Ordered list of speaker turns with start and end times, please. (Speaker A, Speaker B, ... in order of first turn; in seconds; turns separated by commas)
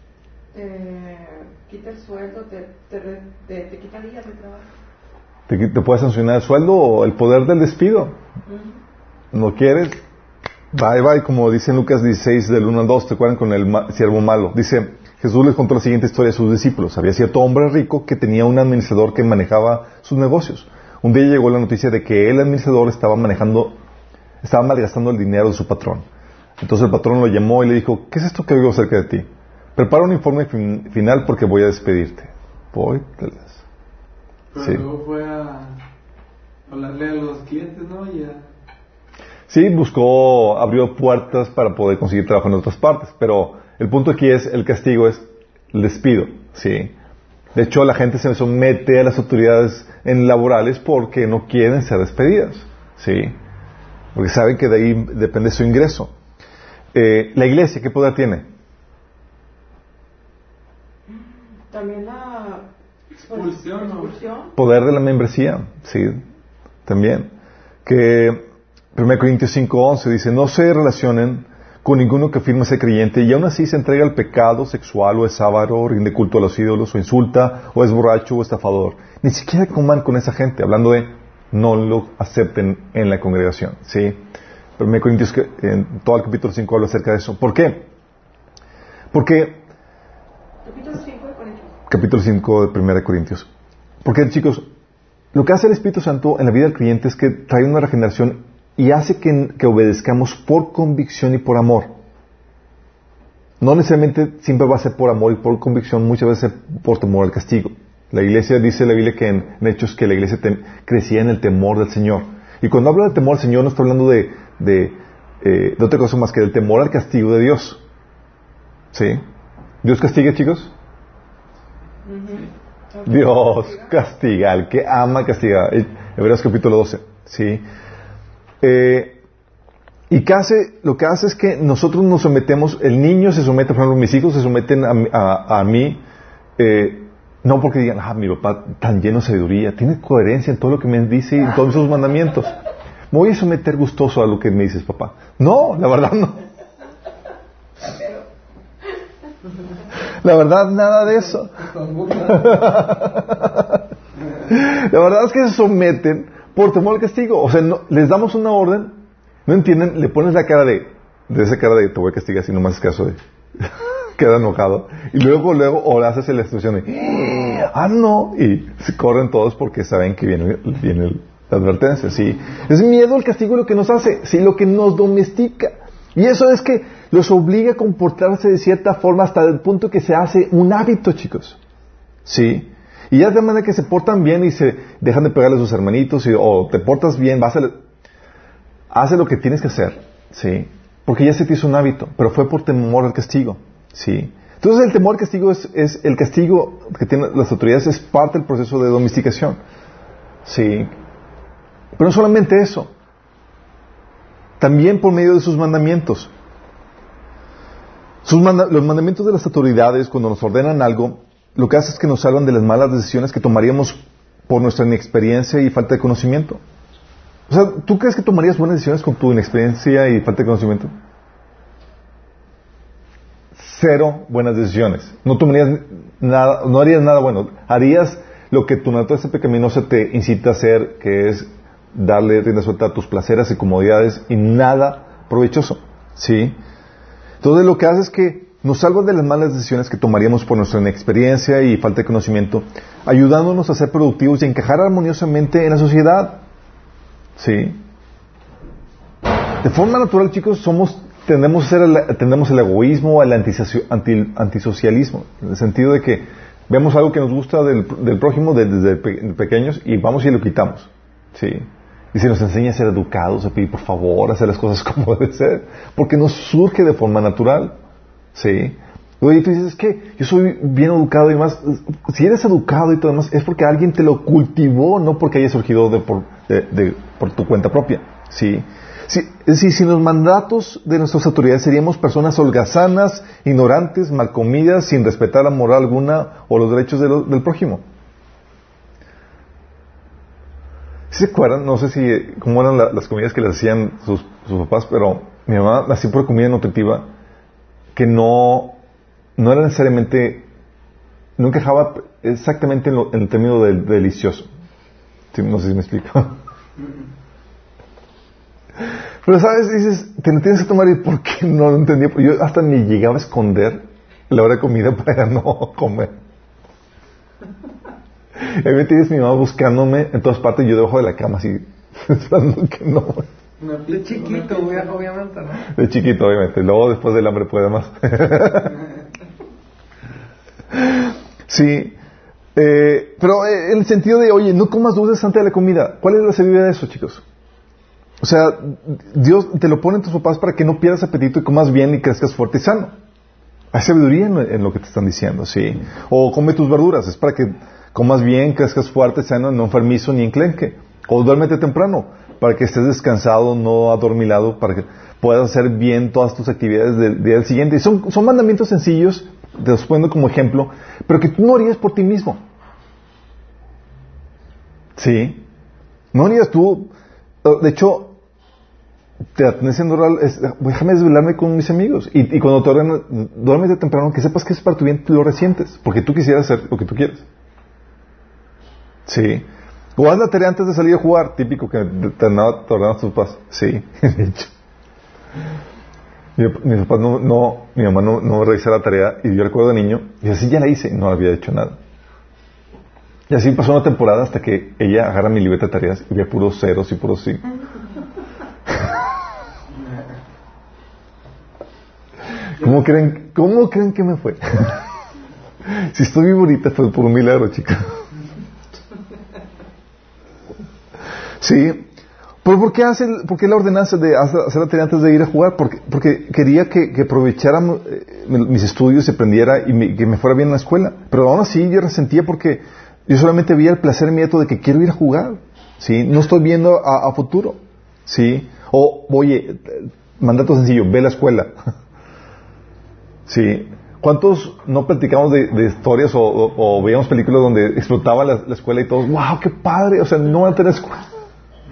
Speaker A: 0.5-4.7, Speaker B: 5.5-8.2, Speaker A: 8.5-8.7, Speaker B: 9.3-10.0, Speaker B: 10.7-23.8, Speaker B: 24.4-26.1, Speaker B: 26.6-33.6, Speaker C: 34.5-35.8, Speaker B: 34.6-34.9, Speaker C: 36.7-38.5, Speaker B: 39.5-46.9, Speaker B: 47.5-53.4, Speaker B: 54.1-56.1, Speaker B: 56.9-58.5, Speaker A: 61.7-64.5, Speaker C: 63.1-64.1, Speaker B: 64.5-66.2, Speaker B: 66.8-67.3, Speaker B: 67.8-68.4, Speaker B: 68.9-84.2, Speaker B: 84.8-87.9, Speaker B: 89.1-89.6, Speaker A: 90.6-91.7, Speaker B: 91.9-93.5, Speaker B: 94.0-94.7, Speaker B: 95.3-102.0, Speaker B: 103.6-117.8, Speaker B: 118.9-119.2, Speaker B: 119.8-120.7, Speaker A: 122.0-123.9, Speaker B: 123.0-127.6, Speaker B: 128.6-129.2, Speaker B: 130.1-136.0, Speaker B: 136.6-142.5, Speaker B: 143.1-146.4, Speaker A: 147.9-148.2, Speaker B: 150.2-153.8, Speaker D: 151.7-152.8, Speaker B: 154.5-181.6, Speaker B: 182.2-187.8, Speaker B: 188.9-199.6, Speaker B: 200.4-200.9, Speaker B: 201.9-202.9, Speaker B: 204.6-206.3, Speaker B: 208.2-216.6, Speaker B: 217.5-220.9, Speaker B: 223.5-236.6, Speaker B: 237.4-246.4, Speaker B: 247.4-247.8, Speaker B: 249.6-267.8, Speaker B: 268.3-287.8, Speaker B: 291.1-297.1, Speaker B: 297.9-298.8, Speaker B: 299.4-300.5, Speaker B: 301.4-304.5, Speaker B: 305.3-306.3, Speaker B: 309.2-316.1, Speaker B: 318.4-323.3, Speaker C: 323.6-325.0, Speaker D: 323.9-325.7, Speaker B: 325.7-328.8, Speaker B: 330.7-332.0, Speaker B: 332.5-337.2, Speaker B: 338.2-342.9, Speaker B: 343.7-362.4, Speaker B: 365.0-365.4, Speaker B: 366.1-366.9, Speaker B: 367.4-368.2, Speaker B: 369.3-377.2, Speaker B: 379.1-384.5, Speaker B: 386.4-391.8, Speaker B: 393.3-397.5, Speaker C: 399.7-400.0, Speaker B: 402.6-404.8, Speaker B: 405.6-408.0, Speaker B: 411.4-411.9, Speaker B: 412.4-431.5, Speaker B: 433.3-441.1